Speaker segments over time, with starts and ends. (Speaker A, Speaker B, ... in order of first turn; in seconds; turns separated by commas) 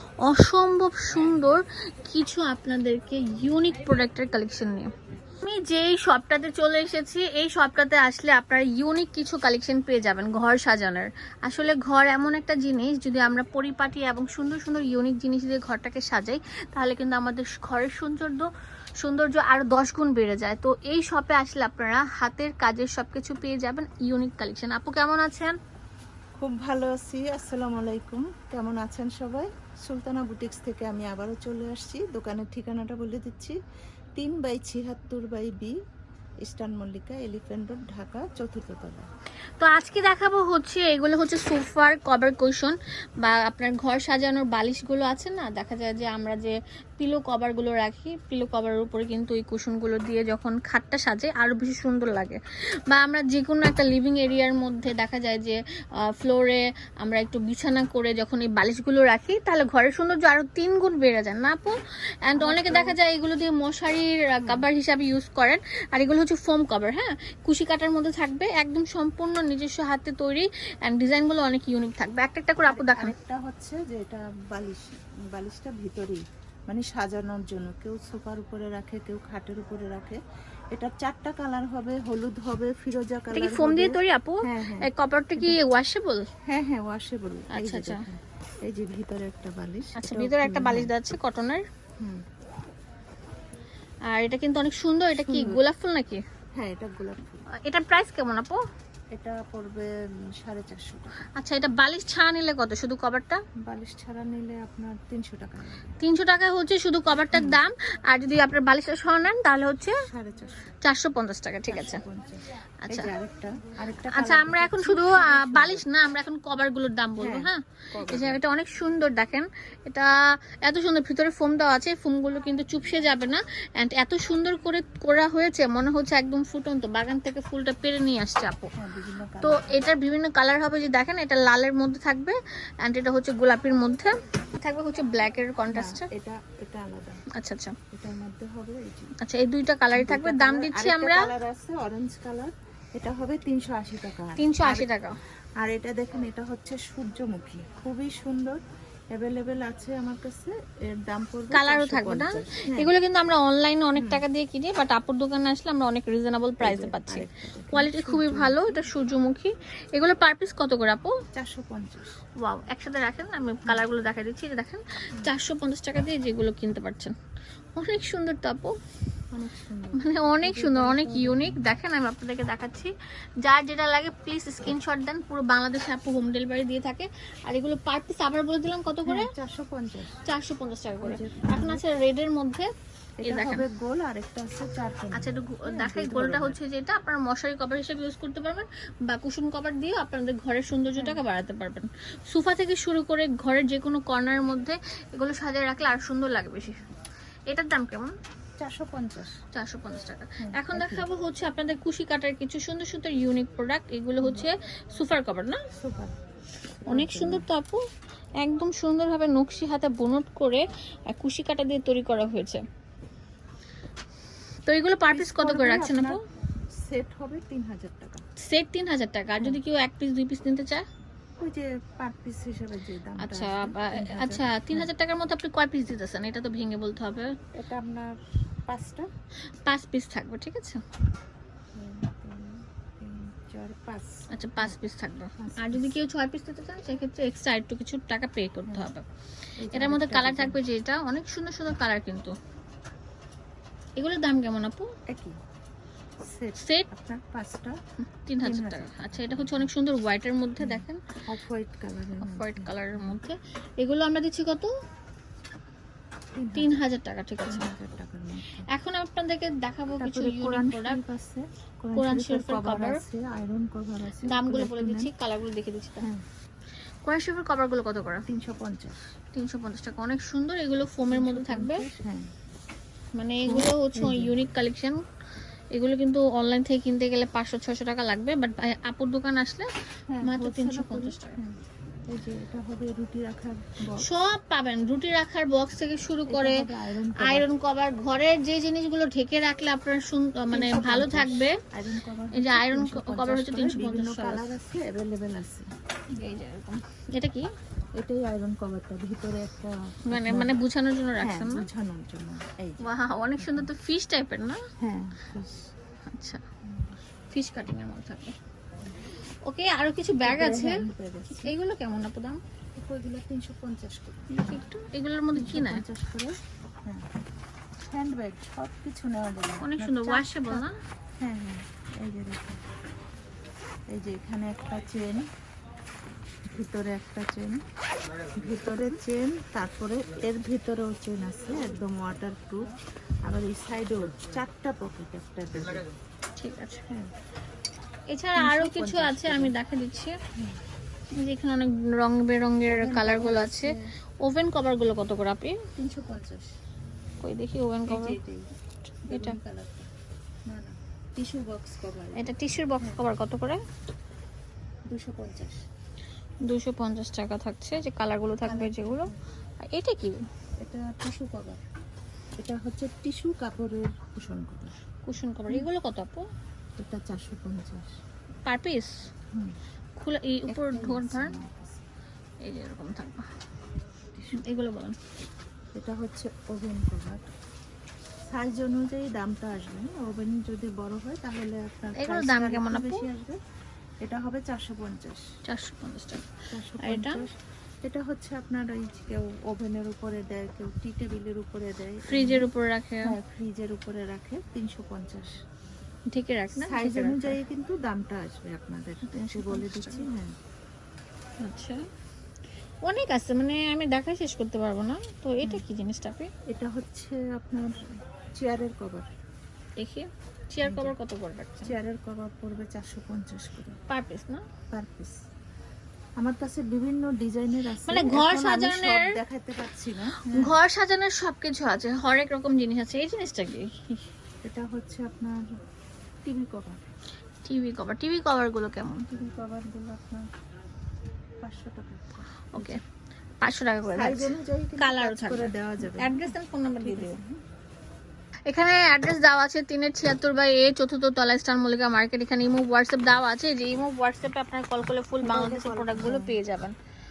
Speaker A: 0.2-18.5, Speaker A: 19.0-25.6, Speaker B: 26.4-33.6, Speaker B: 34.1-35.7, Speaker B: 36.4-39.1, Speaker A: 39.6-52.4, Speaker A: 52.9-73.1, Speaker B: 62.4-63.0, Speaker B: 72.7-80.2, Speaker B: 80.7-85.6, Speaker A: 83.3-86.3, Speaker B: 86.4-90.9, Speaker A: 87.5-88.0, Speaker A: 90.0-91.6, Speaker B: 92.0-92.2, Speaker A: 94.1-96.2, Speaker B: 95.1-95.6, Speaker B: 96.5-97.4, Speaker A: 97.5-98.6, Speaker B: 99.1-99.9, Speaker B: 100.4-101.2, Speaker A: 101.3-103.4, Speaker B: 103.6-105.9, Speaker A: 106.0-110.0, Speaker B: 107.3-107.6, Speaker B: 110.0-110.7, Speaker A: 110.8-112.0, Speaker B: 111.7-115.8, Speaker A: 114.1-128.7, Speaker B: 117.2-118.4, Speaker B: 128.8-129.9, Speaker A: 129.4-136.1, Speaker B: 135.7-137.2, Speaker A: 137.3-137.8, Speaker B: 137.9-139.1, Speaker A: 139.2-141.3, Speaker B: 139.9-144.9, Speaker A: 144.4-145.2, Speaker B: 145.6-148.6, Speaker B: 149.1-152.9, Speaker A: 151.5-161.2, Speaker B: 153.9-154.2, Speaker B: 156.6-158.8, Speaker B: 161.3-162.1, Speaker A: 162.4-167.1, Speaker A: 167.8-168.8, Speaker B: 169.3-171.6, Speaker A: 169.9-179.3, Speaker B: 179.1-180.2, Speaker A: 180.2-182.7, Speaker B: 181.0-181.8, Speaker B: 183.2-186.6, Speaker A: 183.2-183.6, Speaker A: 185.1-196.8, Speaker B: 190.9-191.2, Speaker A: 197.5-198.2, Speaker B: 198.6-199.3, Speaker A: 199.5-205.6, Speaker B: 200.4-201.1, Speaker B: 204.2-204.5, Speaker B: 205.8-206.2, Speaker B: 206.8-207.4, Speaker A: 206.9-207.8, Speaker A: 208.4-212.6, Speaker A: 214.7-216.2, Speaker B: 215.1-216.2, Speaker B: 216.8-218.2, Speaker A: 218.4-220.8, Speaker B: 221.4-224.9, Speaker A: 223.2-227.3, Speaker B: 227.5-229.1, Speaker A: 229.6-230.8, Speaker B: 231.7-234.8, Speaker A: 234.3-239.1, Speaker B: 235.4-236.0, Speaker B: 239.6-240.6, Speaker A: 239.7-242.4, Speaker A: 244.0-244.9, Speaker B: 245.1-245.4, Speaker B: 246.2-247.8, Speaker A: 246.6-246.9, Speaker A: 248.2-251.0, Speaker B: 248.4-249.7, Speaker B: 250.6-253.2, Speaker A: 252.2-254.7, Speaker B: 256.3-256.8, Speaker A: 256.6-257.7, Speaker B: 257.4-258.7, Speaker A: 258.7-261.0, Speaker B: 259.9-265.1, Speaker A: 261.9-263.0, Speaker A: 264.2-266.1, Speaker A: 267.0-268.2, Speaker B: 268.3-269.0, Speaker A: 269.3-271.8, Speaker B: 271.1-272.2, Speaker A: 273.1-275.0, Speaker B: 273.4-274.3, Speaker A: 275.7-279.7, Speaker B: 280.1-284.1, Speaker A: 280.2-281.4, Speaker A: 283.9-286.7, Speaker B: 286.3-287.5, Speaker A: 287.2-291.6, Speaker B: 290.5-295.7, Speaker A: 292.3-294.5, Speaker A: 296.1-297.5, Speaker B: 298.0-300.5, Speaker A: 300.1-301.6, Speaker B: 301.2-303.7, Speaker A: 302.8-304.6, Speaker B: 304.8-305.7, Speaker A: 306.1-306.4, Speaker B: 306.6-307.0, Speaker A: 307.3-308.4, Speaker A: 309.4-312.4, Speaker B: 310.2-311.5, Speaker B: 312.8-314.3, Speaker A: 314.3-315.8, Speaker B: 315.3-317.0, Speaker B: 317.9-320.7, Speaker A: 319.6-320.8, Speaker B: 321.2-322.6, Speaker B: 323.9-325.2, Speaker B: 326.5-327.6, Speaker B: 328.3-332.7, Speaker B: 333.2-335.8, Speaker A: 336.4-336.8, Speaker A: 338.1-340.2, Speaker B: 338.4-339.5, Speaker A: 341.1-345.6, Speaker B: 342.7-343.8, Speaker B: 345.7-346.5, Speaker A: 347.2-348.2, Speaker B: 347.9-348.5, Speaker A: 349.0-349.4, Speaker B: 349.1-349.9, Speaker B: 350.5-353.0, Speaker A: 352.2-353.6, Speaker B: 354.9-355.6, Speaker A: 356.4-359.1, Speaker B: 358.4-359.2, Speaker A: 359.6-360.2, Speaker B: 360.6-361.6, Speaker B: 362.4-364.8, Speaker A: 365.1-366.3, Speaker B: 366.8-367.9, Speaker A: 368.4-369.0, Speaker A: 370.0-371.4, Speaker B: 370.5-371.8, Speaker A: 372.4-373.3, Speaker B: 374.1-374.4, Speaker A: 374.3-374.9, Speaker B: 375.7-377.3, Speaker B: 378.3-383.4, Speaker A: 381.9-383.0, Speaker B: 384.0-385.2, Speaker A: 385.5-386.2, Speaker B: 386.5-387.3, Speaker A: 386.8-387.2, Speaker B: 387.8-392.5, Speaker A: 392.0-393.1, Speaker B: 393.0-395.4, Speaker A: 396.1-397.4, Speaker B: 396.5-400.3, Speaker A: 399.1-400.1, Speaker A: 401.4-401.8, Speaker A: 402.8-406.3, Speaker B: 406.5-407.9, Speaker B: 408.4-409.1, Speaker A: 409.8-411.7, Speaker B: 410.6-410.9, Speaker B: 411.6-413.8, Speaker A: 413.9-414.4, Speaker B: 414.7-415.2, Speaker B: 416.2-420.6, Speaker A: 417.8-419.2, Speaker A: 420.2-424.0, Speaker B: 424.4-425.4, Speaker B: 426.2-426.8, Speaker A: 427.4-429.1, Speaker B: 429.1-430.3, Speaker B: 431.4-432.8, Speaker A: 432.5-432.8, Speaker A: 433.4-437.2, Speaker B: 433.9-437.4, Speaker A: 438.5-446.7, Speaker B: 445.2-446.4